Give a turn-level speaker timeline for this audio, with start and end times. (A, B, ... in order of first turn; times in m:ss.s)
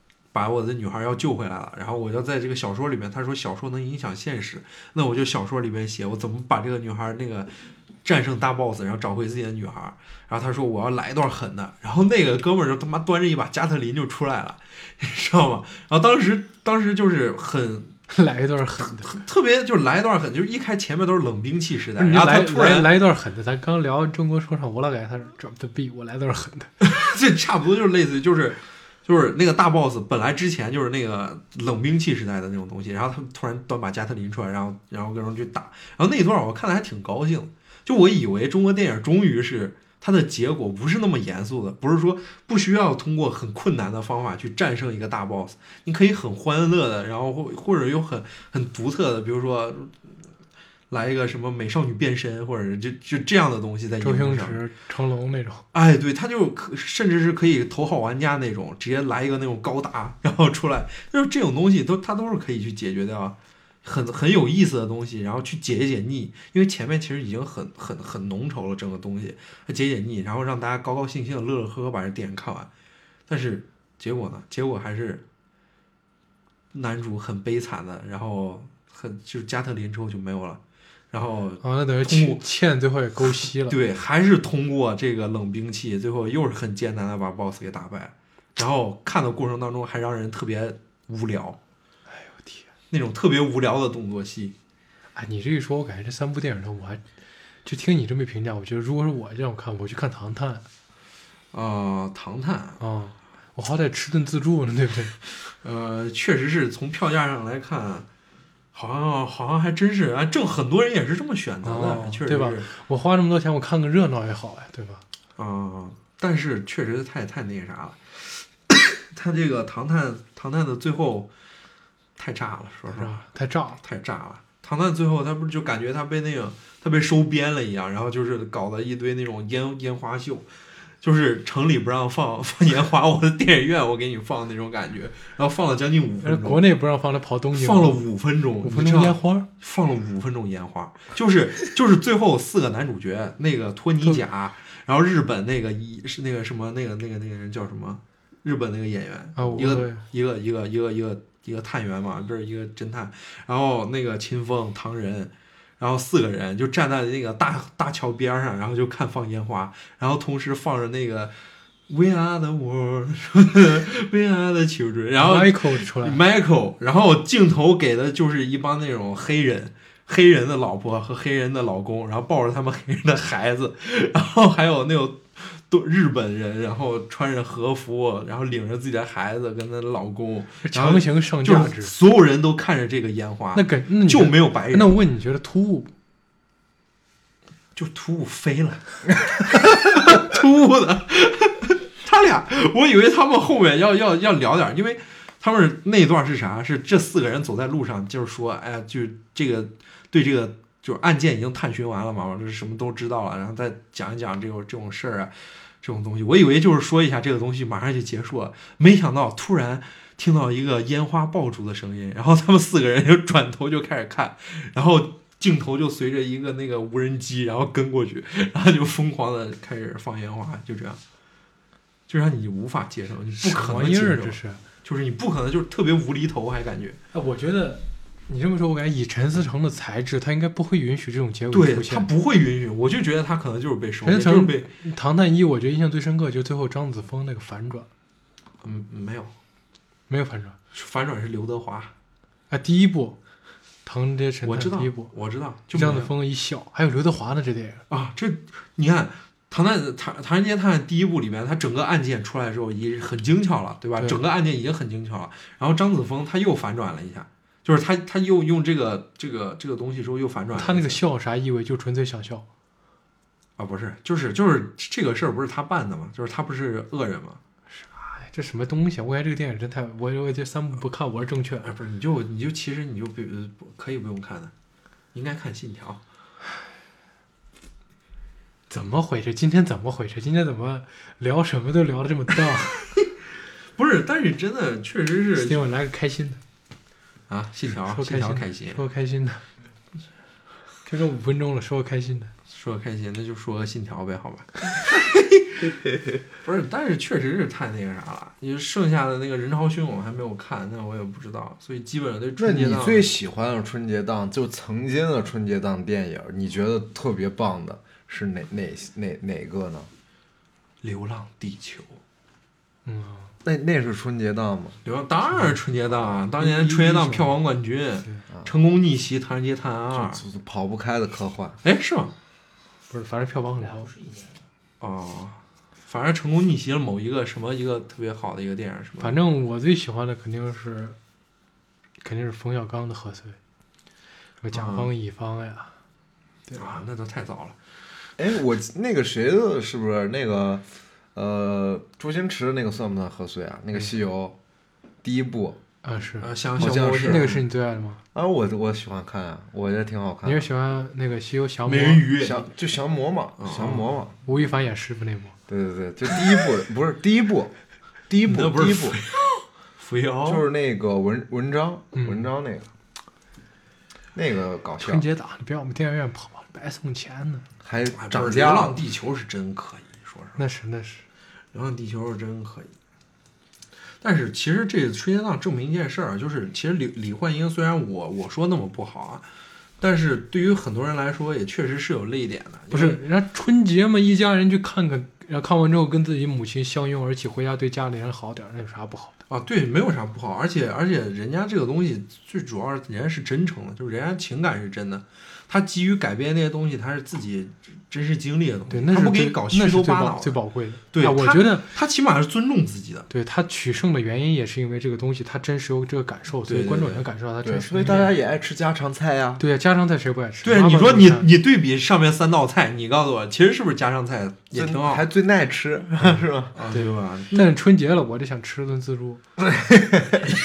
0:00.3-0:18.0 A
0:18.1-0:19.2 B
0:18.8-0:22.9 A
0:22.0-0:26.7 B
0:26.8-0:50.1 A
0:50.9-0:54.6 A
0:54.0-0:55.6 B
0:55.7-1:12.7 A
1:13.3-1:15.2 A
1:16.7-1:20.6 A
1:21.1-1:22.4 A
1:21.6-1:23.8 B
1:23.4-1:31.6 A
1:32.1-1:32.7 B
1:32.9-1:34.5 A
1:35.2-1:37.0 B
1:37.6-1:40.7 B
1:41.5-1:42.8 A
1:42.8-1:45.2 B
1:45.5-1:48.1 A
1:48.7-1:52.7 A
1:51.6-1:55.0 B
1:55.4-2:01.3 A
2:02.2-2:03.2 A
2:02.9-2:03.8 B
2:03.8-2:10.5 A
2:11.0-2:16.6 A
2:16.2-2:18.0 B
2:17.5-2:41.4 A
2:18.6-2:19.5 B
2:29.4-2:30.0 B
2:41.9-3:05.0 A
2:45.2-2:46.2 B
3:00.6-3:01.9 B
3:03.5-3:05.9 B
3:07.8-3:41.0 A
3:42.1-3:47.0 A
3:43.4-3:44.6 B
3:47.1-3:52.1 B
3:51.5-3:54.7 A
3:54.0-3:57.9 B
3:58.6-3:59.3 A
4:00.1-4:00.6 B
4:00.7-4:01.9 A
4:02.5-4:03.2 B
4:03.8-4:05.1 B
4:04.4-4:06.1 A
4:05.7-4:07.8 B
4:07.9-4:21.0 A
4:20.6-4:22.4 B
4:23.6-4:27.4 A
4:27.7-4:31.7 B
4:31.6-4:34.5 A
4:35.1-4:36.0 A
4:38.7-4:42.9 B
4:43.8-4:45.7 A
4:45.4-4:46.4 B
4:47.3-4:48.8 A
4:47.9-4:49.5 B
4:50.9-4:52.3 B
4:52.5-5:03.1 A
5:02.4-5:09.9 C
5:10.8-5:12.0 A
5:12.9-5:13.3 B
5:13.4-5:14.8 C
5:14.8-5:20.2 A
5:16.4-5:17.4 B
5:19.9-5:21.6 C
5:21.6-5:22.1 A
5:22.9-5:24.1 B
5:24.8-5:29.2 A
5:29.0-5:31.0 B
5:32.0-5:33.4 B
5:34.4-5:35.7 B
5:34.5-5:34.9 A
5:36.5-5:36.8 B
5:36.6-5:37.6 A
5:38.2-5:44.4 C
5:45.0-5:45.6 C
5:45.8-5:48.0 B
5:46.2-5:47.4 A
5:46.6-5:47.4 C
5:48.1-5:50.5 C
5:50.2-5:52.1 B
5:51.6-5:52.5 A
5:52.2-5:54.2 C
5:53.4-5:53.9 A
5:54.2-5:55.4 B
5:55.5-5:57.5 C
5:58.1-5:59.0 C
5:58.2-6:00.4 A
6:00.2-6:02.7 C
6:02.0-6:02.3 B
6:04.1-6:05.1 C
6:04.8-6:07.4 B
6:07.6-6:08.8 C
6:08.0-6:10.4 A
6:10.4-6:11.0 B
6:11.5-6:12.7 A
6:14.0-6:19.3 A
6:19.8-6:23.0 A
6:22.7-6:29.1 B
6:29.3-6:40.4 A
6:38.7-6:41.7 B
6:40.9-6:43.1 A
6:43.1-6:48.1 B
6:46.4-6:47.1 A
6:47.4-6:49.4 C
6:49.4-6:51.3 B
6:50.4-6:55.1 A
6:54.5-6:56.6 C
6:56.5-6:57.5 A
6:56.7-6:59.2 B
6:59.4-7:00.2 C